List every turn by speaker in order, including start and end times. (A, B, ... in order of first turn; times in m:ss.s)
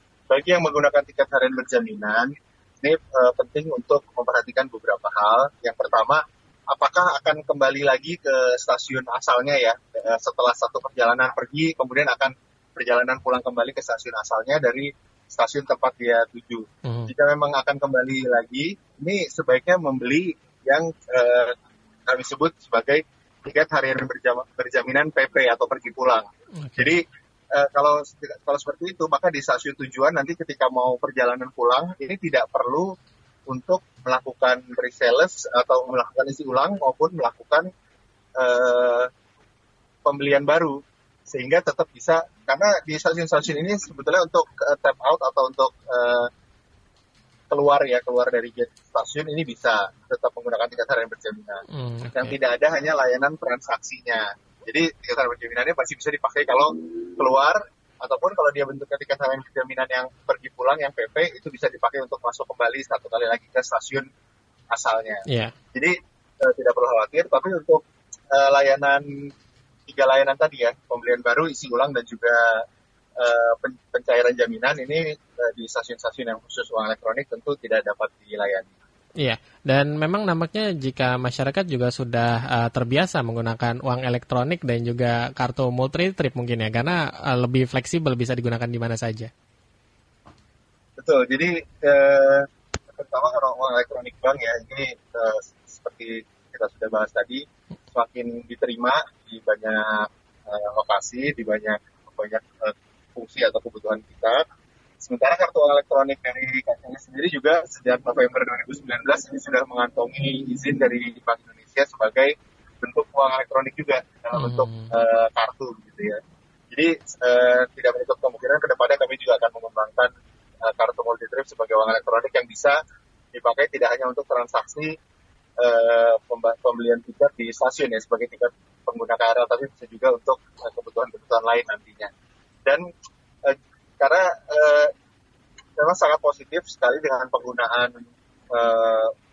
0:00.3-0:21.5 A
0:16.8-0:17.1 B
0:22.1-0:26.2 A
0:26.6-0:26.9 B
0:26.8-0:27.0 A
0:27.5-0:32.9 A
0:33.5-0:37.7 A
0:38.4-0:39.1 A
0:40.0-0:46.3 A
0:47.5-0:51.6 A
0:51.8-0:52.3 B
0:52.1-1:04.0 A
1:04.7-1:09.0 A
1:05.3-1:05.5 B
1:09.9-1:12.6 A
1:13.2-1:18.7 A
1:19.2-1:29.3 B
1:31.0-1:44.4 A
1:45.0-1:56.2 A
1:54.3-1:54.9 B
1:56.7-2:00.1 A
2:00.6-2:02.8 A
2:03.3-2:04.9 A
2:05.6-2:12.1 A
2:13.4-2:14.9 A
2:15.8-2:18.0 A
2:18.5-2:19.1 A